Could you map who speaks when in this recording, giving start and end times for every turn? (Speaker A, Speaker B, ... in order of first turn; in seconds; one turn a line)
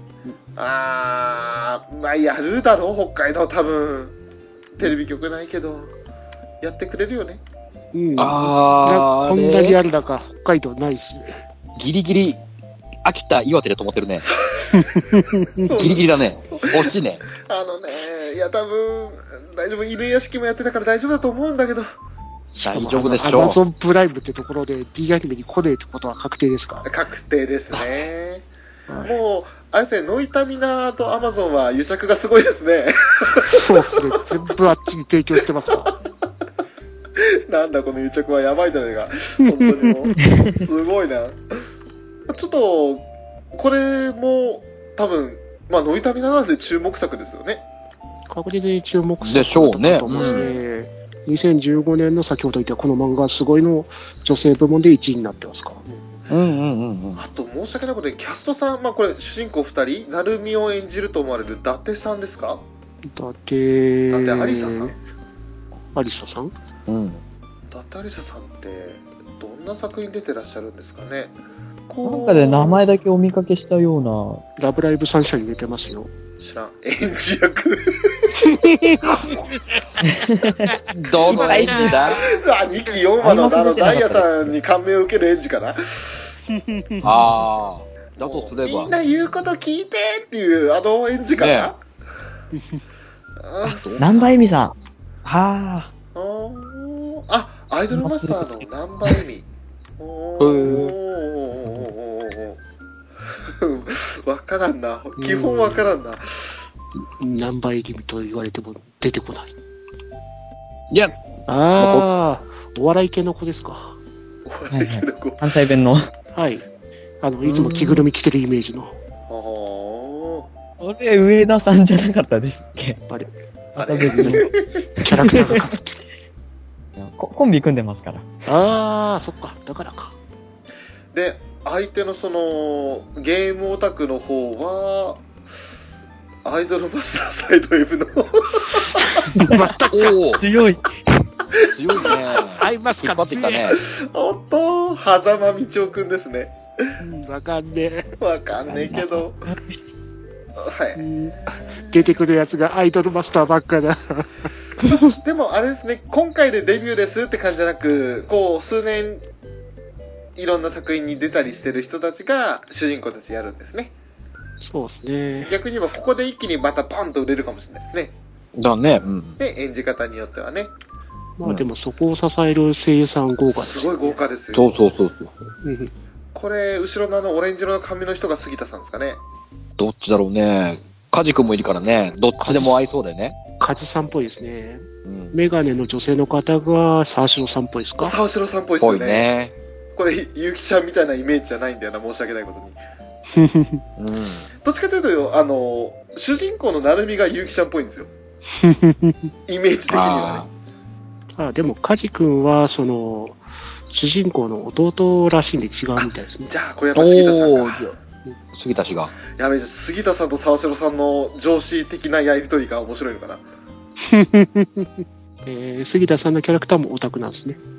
Speaker A: 0.6-4.1
Speaker A: 4.8-5.9
Speaker A: 6.6-7.4
Speaker B: 7.9-11.4
Speaker C: 8.2-9.8
Speaker C: 11.8-12.4
Speaker C: 13.0-14.2
Speaker A: 14.2-21.9
Speaker B: 14.7-15.7
Speaker C: 15.7-17.2
Speaker B: 22.5-26.9
Speaker C: 22.7-23.6
Speaker A: 26.8-28.5
Speaker B: 28.9-29.1
Speaker A: 29.0-34.1
Speaker B: 33.3-35.9
Speaker A: 37.2-41.6
Speaker D: 40.2-40.6
Speaker A: 42.3-47.6
Speaker B: 48.3-56.0
Speaker C: 49.2-50.5
Speaker A: 50.1-50.5
Speaker C: 56.3-57.2
Speaker A: 57.1-62.6
Speaker B: 63.0-64.9
Speaker A: 64.1-65.0
Speaker B: 65.9-66.5
Speaker C: 66.9-67.2
Speaker A: 67.7-71.3
Speaker A: 71.9-72.8
Speaker D: 72.0-74.4
Speaker B: 74.6-76.1
Speaker A: 76.4-78.3
Speaker B: 78.4-79.4
Speaker A: 79.0-79.4
Speaker D: 80.0-82.0
Speaker C: 81.0-82.3
Speaker B: 81.4-82.0
Speaker A: 82.1-86.3
Speaker D: 83.2-84.6
Speaker B: 86.7-87.0
Speaker C: 87.0-88.9
Speaker A: 88.1-91.8
Speaker C: 91.3-91.7
Speaker A: 93.4-94.4
Speaker C: 93.6-94.1
Speaker D: 94.0-94.7
Speaker D: 95.2-95.9
Speaker A: 96.1-99.4
Speaker D: 97.9-99.2
Speaker A: 100.0-102.6
Speaker C: 100.4-100.9
Speaker A: 103.5-106.6
Speaker B: 105.2-105.9
Speaker B: 107.2-109.5
Speaker C: 110.9-111.2
Speaker B: 111.5-114.0
Speaker C: 111.8-112.1
Speaker A: 114.4-115.7
Speaker D: 114.7-116.1
Speaker B: 116.3-116.7
Speaker B: 117.2-118.9
Speaker D: 117.6-118.0
Speaker A: 119.3-120.5
Speaker D: 120.8-123.0
Speaker A: 123.7-124.8
Speaker D: 123.8-125.7
Speaker B: 124.1-124.5
Speaker B: 125.0-125.9
Speaker D: 127.0-128.2
Speaker B: 128.4-130.1
Speaker A: 131.1-135.2
Speaker A: 136.4-139.2
Speaker B: 138.8-140.2
Speaker C: 139.9-140.4
Speaker D: 140.4-141.2
Speaker A: 141.6-142.2
Speaker C: 141.7-143.8
Speaker B: 142.6-143.8
Speaker A: 143.8-146.9
Speaker B: 147.0-148.1
Speaker A: 148.2-149.4
Speaker D: 148.7-149.6
Speaker A: 150.6-152.1
Speaker B: 150.9-154.5
Speaker A: 155.2-159.2
Speaker A: 160.3-163.9
Speaker B: 164.6-165.5
Speaker A: 165.4-168.1
Speaker C: 168.5-169.4
Speaker A: 169.4-170.7
Speaker B: 171.4-174.2
Speaker A: 173.5-174.7
Speaker C: 174.5-175.3
Speaker B: 175.6-175.9
Speaker A: 176.3-179.2
Speaker C: 179.8-183.3
Speaker B: 182.4-182.8
Speaker B: 183.6-188.2
Speaker C: 185.0-185.3
Speaker A: 188.0-189.3
Speaker C: 188.8-189.5
Speaker A: 189.9-192.8
Speaker B: 193.3-193.8
Speaker C: 194.0-194.5
Speaker A: 194.6-198.1
Speaker B: 198.6-199.3
Speaker A: 199.5-200.5
Speaker C: 199.9-200.5
Speaker B: 201.3-206.5
Speaker A: 206.4-207.9
Speaker C: 206.9-207.9
Speaker C: 208.5-209.1
Speaker A: 209.3-213.4
Speaker B: 214.0-217.6